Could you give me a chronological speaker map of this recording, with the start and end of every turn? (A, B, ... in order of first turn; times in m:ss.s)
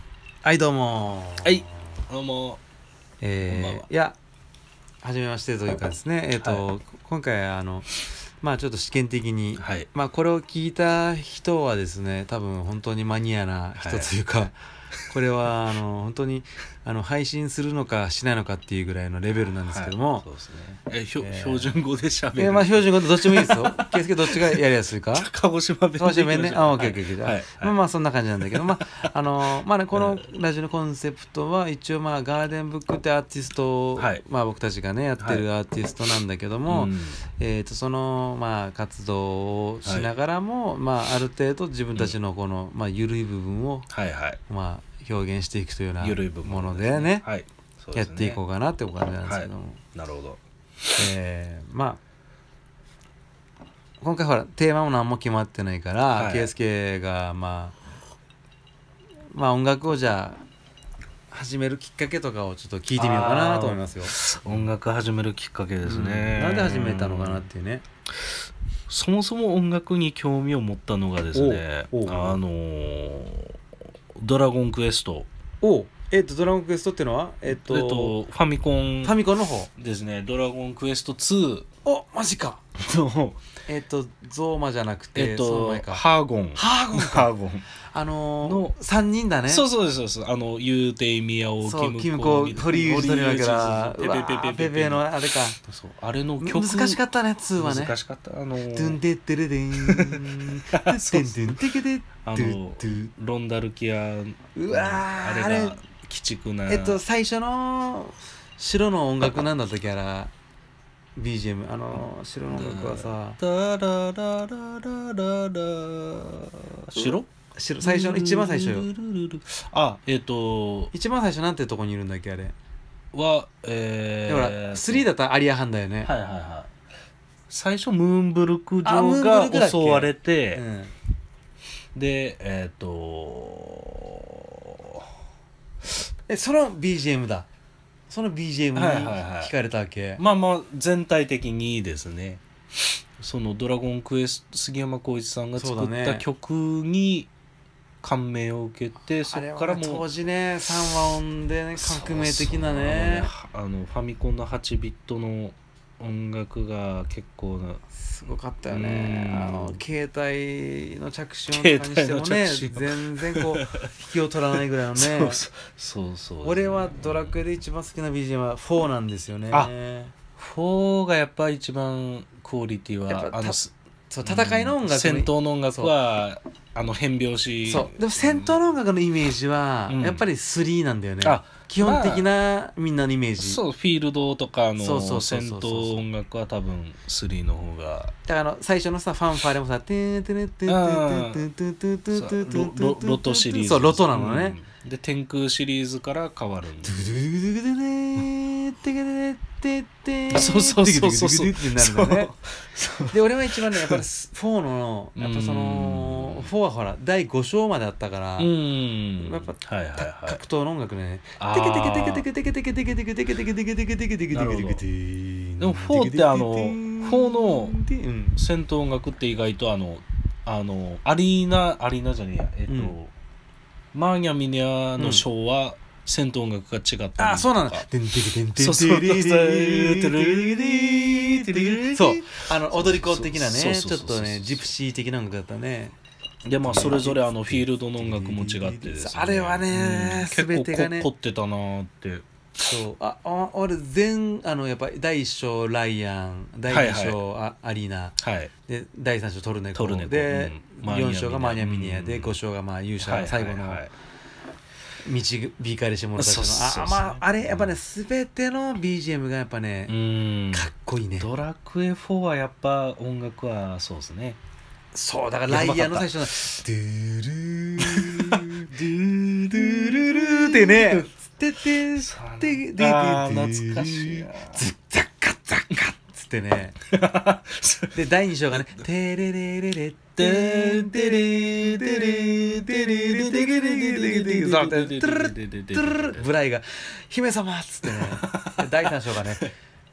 0:00.4-0:01.7 A
0:01.4-0:02.6 B
0:03.2-0:04.2 A
0:03.4-0:03.9 B
0:05.0-0:14.6 A
0:06.4-0:06.6 B
0:09.6-0:09.9 B
0:13.8-0:14.1 B
0:15.1-0:20.2 A
0:19.7-0:24.6 B
0:21.2-0:21.8 A
0:22.3-0:25.3 A
0:25.1-0:27.7 B
0:26.0-0:43.9 A
0:28.4-0:29.1 B
0:29.9-0:30.2 B
0:34.0-0:34.2 B
0:35.2-0:35.4 B
0:36.7-0:37.2 B
0:39.8-0:40.1 B
0:43.9-0:44.4 B
0:44.5-0:47.2 A
0:46.0-0:48.4 B
0:47.9-0:49.8 A
0:49.2-0:51.1 B
0:51.0-0:52.0 A
0:54.0-0:57.8 A
0:56.1-0:56.5 B
0:59.3-1:00.4 A
1:01.3-1:04.7 A
1:02.9-1:07.5 B
1:05.8-1:07.8 A
1:08.9-1:13.6 B
1:11.3-1:12.4 A
1:14.1-1:15.3 B
1:15.6-1:18.2 A
1:17.5-1:19.2 B
1:19.0-1:19.7 A
1:19.8-1:21.7 B
1:21.8-1:22.6 A
1:22.8-1:23.4 B
1:23.7-1:26.0 A
1:25.1-1:27.7 B
1:26.5-1:27.3 A
1:27.9-1:29.6 A
1:28.4-1:28.7 B
1:29.5-1:37.0 B
1:31.6-1:35.6 A
1:36.4-1:37.9 A
1:37.6-1:39.0 B
1:38.7-1:43.1 A
1:39.8-1:41.6 B
1:42.2-1:47.0 B
1:44.5-1:45.8 A
1:46.7-1:50.3 A
1:51.2-1:53.4 A
1:52.5-1:57.3 B
1:56.9-1:58.9 A
1:57.8-2:00.9 B
2:00.9-2:02.5 A
2:03.1-2:05.1 B
2:04.3-2:06.1 A
2:06.0-2:06.7 B
2:07.5-2:10.6 B
2:08.8-2:10.9 A
2:11.9-2:15.1 B
2:16.3-2:17.5 A
2:18.1-2:20.2 A
2:18.7-2:19.5 B
2:20.2-2:27.3 B
2:25.6-2:26.2 A
2:28.0-2:30.0 B
2:29.3-2:33.3 A
2:31.8-2:37.8 B
2:37.9-2:45.4 A
2:38.7-2:39.8 B
2:41.5-2:43.9 B
2:45.0-2:47.4 B
2:46.4-2:50.1 A
2:50.4-2:58.6 B
2:53.1-2:53.6 A
2:54.1-2:55.9 A
2:57.6-3:03.6 A
2:59.9-3:00.3 B
3:01.2-3:02.3 B
3:03.4-3:08.1 B
3:04.8-3:06.0 A
3:08.2-3:14.6 A
3:10.7-3:11.4 B
3:12.1-3:17.2 B
3:16.8-3:22.3 A
3:20.3-3:24.0 B
3:23.1-3:28.5 A
3:25.2-3:26.5 B
3:28.4-3:30.4 B
3:29.2-3:38.4 A
3:31.4-3:32.2 B
3:34.3-3:34.8 B
3:35.6-3:37.8 B
3:38.4-3:43.1 B
3:42.7-3:43.0 A
3:43.9-3:47.8 B
3:45.0-3:45.2 A
3:47.2-3:56.0 A
3:48.6-3:54.7 B
3:56.4-4:02.7 B
3:56.6-4:01.1 A
4:02.6-4:13.8 A
4:06.7-4:07.2 B
4:08.2-4:08.5 B
4:09.7-4:12.4 B
4:13.0-4:13.9 B
4:15.0-4:19.9 A
4:16.2-4:17.8 B
4:19.9-4:24.4 B
4:20.5-4:21.3 A
4:24.9-4:28.7 A
4:25.5-4:26.6 B
4:27.8-4:31.1 B
4:29.5-4:36.8 A
4:32.0-4:34.6 B
4:36.9-4:38.0 B
4:37.9-4:49.5 A
4:38.5-4:38.8 B
4:40.2-4:46.3 B
4:47.8-4:48.9 B